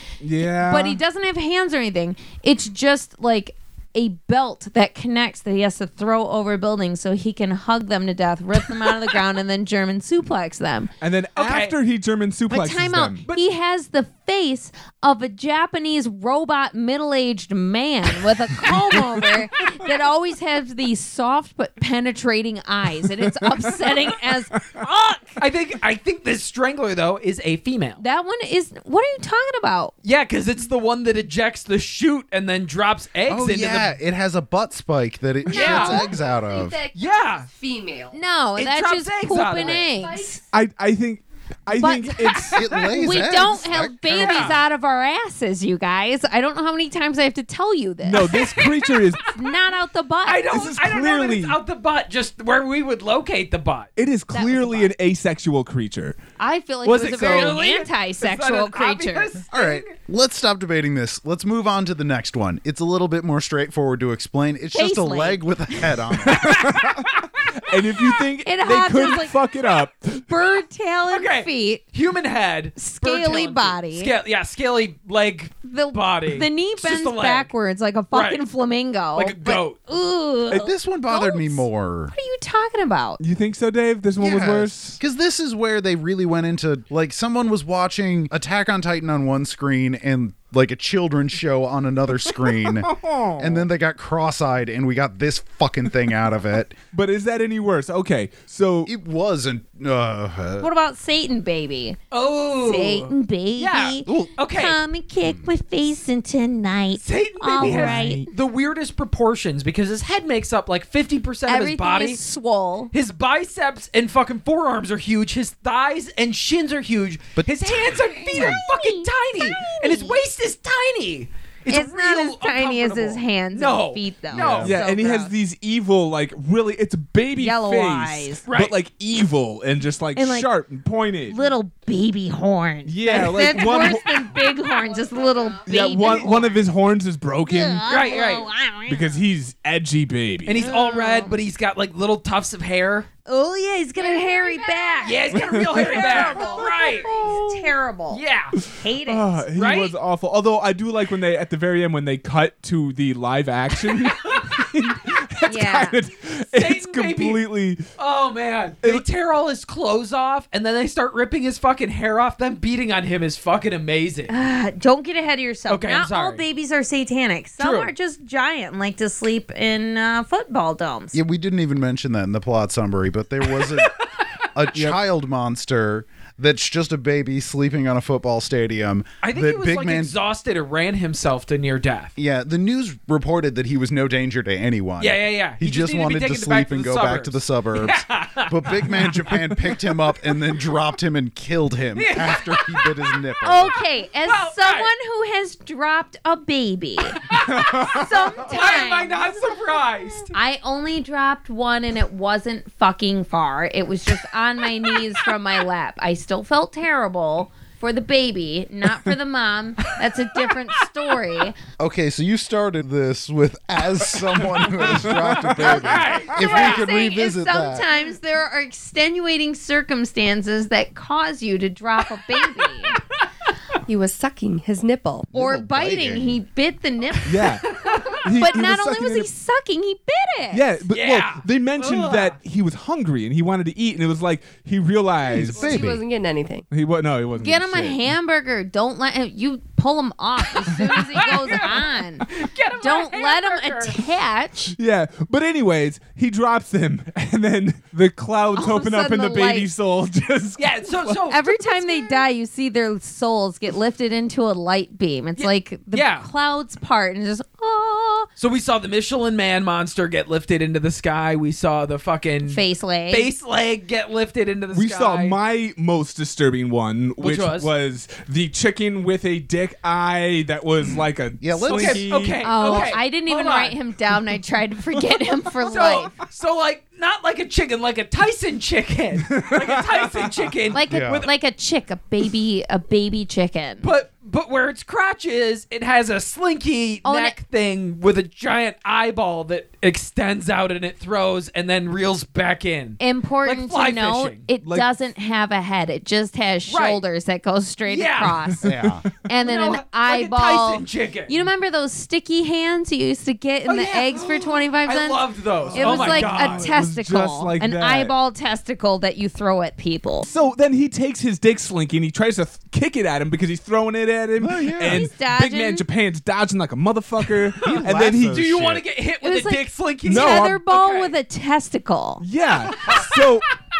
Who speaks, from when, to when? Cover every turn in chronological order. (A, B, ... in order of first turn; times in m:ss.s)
0:00.2-0:01.0 A
0:00.4-0:10.9 B
0:11.0-0:13.2 A
0:11.4-0:11.8 C
0:12.5-0:25.4 B
0:25.4-0:28.0 C
0:28.0-0:29.9 B
0:30.0-0:33.9 C
0:33.3-0:36.8 D
0:35.5-0:36.0 C
0:35.5-0:38.2 E
0:37.0-0:37.5 C
0:38.1-0:40.4 B
0:38.6-0:39.9 C
0:39.5-0:40.4 E
0:40.5-0:42.6 A
0:41.7-0:48.7 B
0:42.5-0:44.6 D
0:44.0-0:44.6 C
0:48.0-0:49.2 A
0:48.3-0:48.6 C
0:49.3-0:50.6 B
0:50.2-0:53.9 C
0:50.5-0:51.6 A
0:54.0-0:56.2 A
0:54.3-0:54.9 B
0:56.4-0:59.3 B
0:56.8-0:59.9 C
0:57.2-0:57.5 A
0:59.5-1:06.7 D
1:04.7-1:06.6 B
1:06.2-1:10.5 A
1:08.1-1:09.4 B
1:10.3-1:11.8 B
1:11.1-1:17.5 C
1:12.8-1:14.1 B
1:15.6-1:23.2 B
1:18.1-1:18.4 C
1:19.1-1:19.8 C
1:20.5-1:22.1 D
1:23.2-1:25.0 A
1:24.2-1:36.8 D
1:32.3-1:33.7 A
1:36.9-1:38.9 A
1:38.8-1:40.7 D
1:40.6-1:42.0 B
1:42.1-1:44.8 C
1:42.6-1:48.3 B
1:45.2-1:45.5 D
1:47.0-1:52.2 C
1:47.6-1:48.3 A
1:51.5-1:52.9 B
1:52.9-2:04.8 C
1:57.4-1:58.6 D
1:58.3-2:00.2 B
2:01.7-2:05.3 B
2:04.3-2:04.8 D
2:04.6-2:11.4 A
2:07.4-2:08.4 B
2:08.5-2:08.7 C
2:10.1-2:10.5 B
2:11.3-2:16.6 B
2:12.8-2:14.1 A
2:14.4-2:16.6 E
2:15.7-2:17.9 A
2:17.5-2:19.1 B
2:17.9-2:18.4 C
2:18.9-2:20.6 A
2:20.4-2:23.1 C
2:20.5-2:21.4 B
2:23.2-2:29.4 B
2:24.0-2:25.3 E
2:25.0-2:28.6 C
2:25.3-2:26.0 A
2:25.9-2:27.5 E
2:28.6-2:37.8 A
2:29.5-2:29.9 C
2:35.4-2:36.0 B
2:36.5-2:44.3 C
2:44.3-2:51.2 B
2:45.7-2:46.4 C
2:47.6-2:47.9 C
2:51.1-2:53.9 D
2:53.6-2:54.4 C
2:54.5-3:00.2 D
2:59.2-3:02.1 C
3:02.2-3:13.8 D
3:05.0-3:09.5 C
3:11.9-3:12.9 C
3:13.4-3:19.3 B
3:14.2-3:14.9 C
3:17.2-3:20.3 C
3:17.3-3:18.3 A
3:20.3-3:31.6 B
3:31.8-3:37.9 D
3:34.1-3:36.4 A
3:35.6-3:36.8 C
3:36.4-3:43.0 B
3:42.6-3:43.2 C
3:43.8-3:45.3 E
3:45.3-3:46.4 D
3:45.3-3:50.6 B
3:47.2-3:49.3 A
3:47.5-3:48.2 C
3:50.5-3:56.0 A
3:50.9-3:52.4 C
3:55.4-3:56.6 E
3:55.5-3:56.0 D
3:56.7-3:58.0 A
3:57.4-4:04.7 B
4:00.6-4:04.0 C
4:04.7-4:11.2 A
4:08.5-4:09.7 B
4:10.6-4:12.2 C
4:11.3-4:18.3 B
4:15.4-4:16.3 C
4:18.4-4:25.4 C
4:22.5-4:23.3 B
4:24.7-4:32.5 A
4:27.2-4:27.7 C
4:30.9-4:32.1 D
4:31.6-4:33.8 C
4:32.4-4:36.1 B
4:35.6-4:41.3 C
4:39.3-4:40.1 A
4:40.7-4:43.9 B
4:40.9-4:41.2 D
4:43.8-4:54.4 C
4:47.0-4:47.4 B
4:53.0-5:10.3 B
4:54.6-4:54.9 A
4:56.7-4:57.0 C
4:57.8-4:58.4 C
4:58.6-4:59.1 D
4:59.4-5:01.5 C
5:03.6-5:06.7 C
5:05.7-5:08.1 A
5:10.2-5:18.8 A
5:14.4-5:15.1 D
5:14.8-5:15.8 B
5:17.6-5:18.8 D
5:17.7-5:21.2 C
5:19.2-5:22.2 B
5:20.1-5:20.6 A
5:22.2-5:23.4 A
5:22.7-5:23.3 C